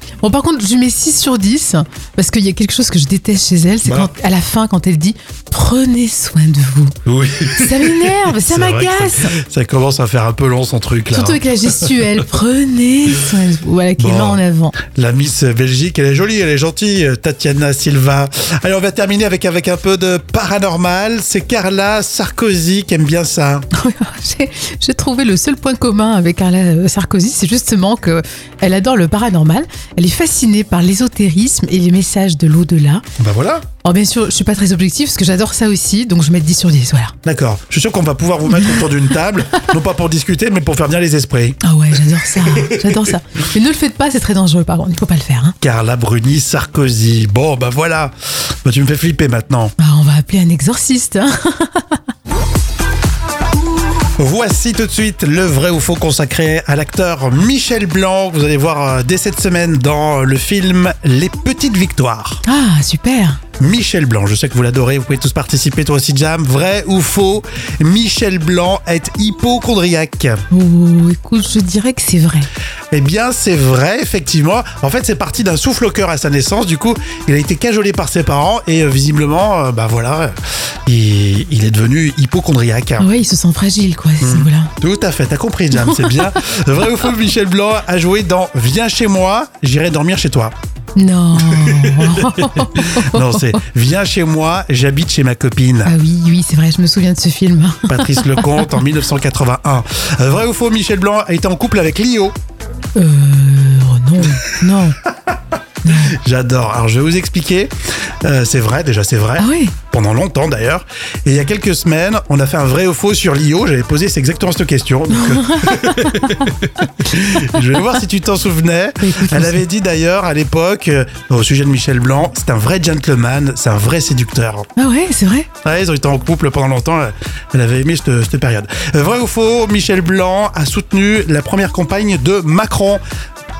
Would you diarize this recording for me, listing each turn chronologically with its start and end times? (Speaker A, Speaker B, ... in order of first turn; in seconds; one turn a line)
Speaker A: 0.2-7.0
Speaker B: 3.8-4.1
Speaker B: 7.0-12.2
Speaker A: 7.5-9.3
Speaker A: 11.1-14.8
Speaker B: 14.0-23.7
Speaker A: 23.7-33.0
Speaker B: 33.2-33.6
Speaker A: 33.8-37.1
Speaker B: 37.2-41.6
Speaker A: 38.5-38.8
Speaker A: 41.6-45.5
Speaker B: 42.3-42.9
Speaker B: 45.6-49.7
Speaker A: 49.8-52.0
Speaker B: 54.2-62.4
Speaker A: 62.5-63.4
Speaker B: 63.6-70.4
Speaker A: 70.5-72.5
Speaker B: 72.9-83.1
Speaker A: 83.0-84.7
Speaker B: 84.2-90.5
Speaker A: 85.8-86.2
Speaker A: 91.0-93.6
Speaker B: 91.4-95.9
Speaker A: 95.8-98.8
Speaker B: 97.9-102.3
Speaker A: 103.0-105.0
Speaker B: 105.8-124.7
Speaker A: 105.8-106.1
Speaker A: 109.4-109.7
Speaker A: 115.1-116.4
Speaker A: 119.0-119.6
Speaker A: 124.8-125.5
Speaker B: 125.6-133.0